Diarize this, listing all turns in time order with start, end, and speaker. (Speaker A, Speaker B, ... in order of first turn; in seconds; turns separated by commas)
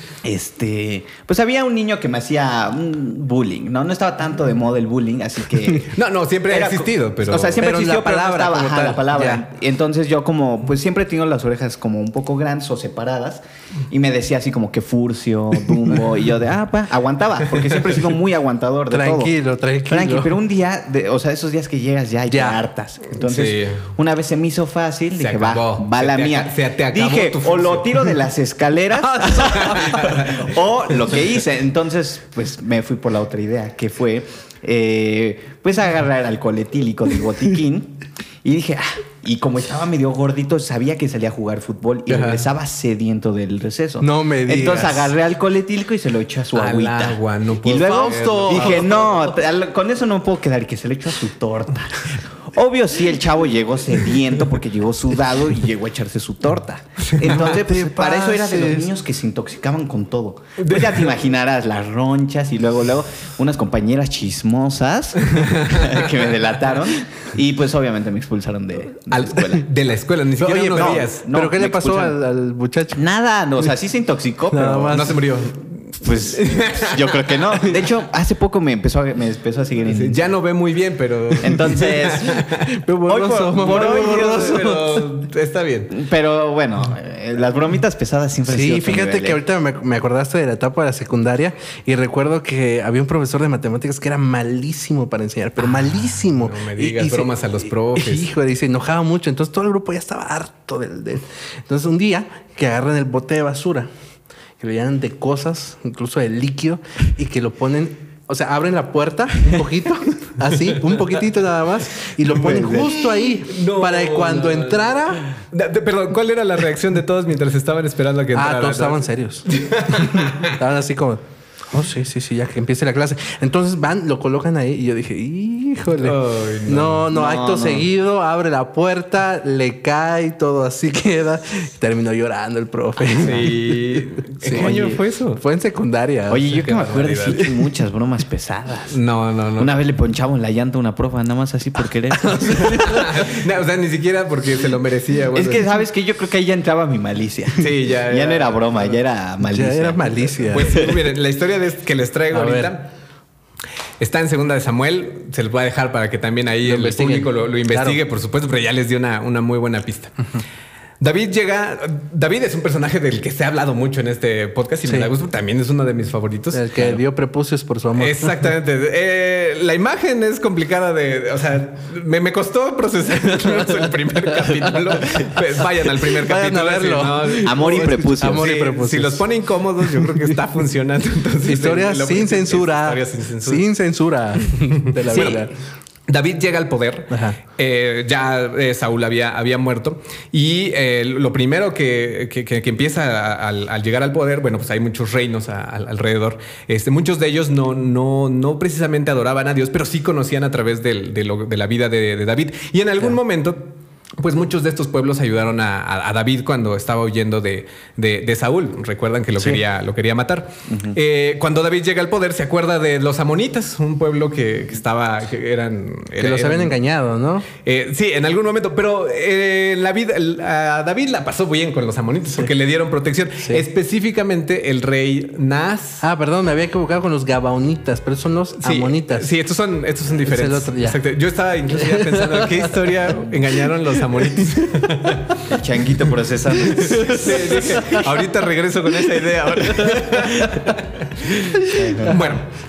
Speaker A: 0.2-5.9, Speaker B: 5.9-7.6, Speaker A: 6.5-19.3, Speaker C: 7.5-9.4, Speaker C: 18.9-20.4, Speaker A: 19.9-69.6, Speaker C: 22.3-22.6, Speaker B: 23.2-23.9, Speaker B: 25.2-28.1, Speaker C: 28.9-30.2, Speaker B: 29.5-30.5, Speaker B: 42.1-42.4, Speaker C: 44.0-45.1, Speaker B: 46.5-49.1, Speaker C: 47.7-49.1, Speaker B: 57.0-57.4, Speaker C: 57.2-58.9, Speaker B: 60.6-61.1, Speaker B: 65.3-66.2, Speaker B: 69.1-71.2, Speaker C: 70.4-73.0, Speaker A: 70.7-72.2, Speaker A: 72.9-75.0, Speaker C: 74.5-75.2, Speaker B: 74.9-77.6, Speaker A: 76.0-80.2, Speaker B: 79.9-82.8, Speaker A: 81.4-82.4, Speaker C: 82.6-85.1, Speaker A: 83.0-84.7, Speaker B: 83.6-85.9, Speaker A: 85.9-89.4, Speaker C: 88.5-97.3, Speaker B: 96.2-98.3, Speaker C: 97.9-103.9, Speaker C: 104.6-115.3, Speaker B: 112.3-120.6, Speaker C: 118.3-136.5, Speaker B: 125.9-127.1, Speaker A: 127.1-127.8, Speaker B: 133.2-135.4, Speaker A: 136.3-139.0, Speaker B: 136.5-137.5, Speaker B: 138.9-139.7, Speaker A: 139.6-143.0, Speaker C: 142.2-143.3, Speaker B: 142.7-145.7, Speaker A: 145.3-150.8, Speaker B: 147.6-149.0, Speaker C: 149.4-151.0, Speaker B: 150.5-152.9, Speaker C: 152.3-152.7, Speaker B: 154.0-160.2, Speaker C: 156.6-158.0, Speaker B: 161.0-167.0, Speaker C: 164.8-165.1, Speaker C: 166.5-168.5, Speaker B: 167.9-183.6, Speaker C: 173.2-179.3, Speaker A: 177.4-178.5, Speaker C: 179.8-180.4, Speaker C: 181.4-185.5, Speaker B: 184.9-185.5, Speaker A: 185.1-185.4, Speaker B: 186.1-216.8, Speaker C: 187.1-187.4, Speaker A: 210.7-210.9, Speaker C: 216.2-217.5, Speaker B: 217.6-226.1, Speaker C: 226.0-229.3, Speaker B: 228.6-235.4, Speaker C: 230.2-231.0, Speaker C: 231.7-233.0, Speaker A: 235.4-237.8, Speaker C: 236.6-238.1, Speaker B: 236.9-242.4, Speaker C: 239.1-240.7, Speaker C: 241.6-242.3, Speaker A: 241.7-242.2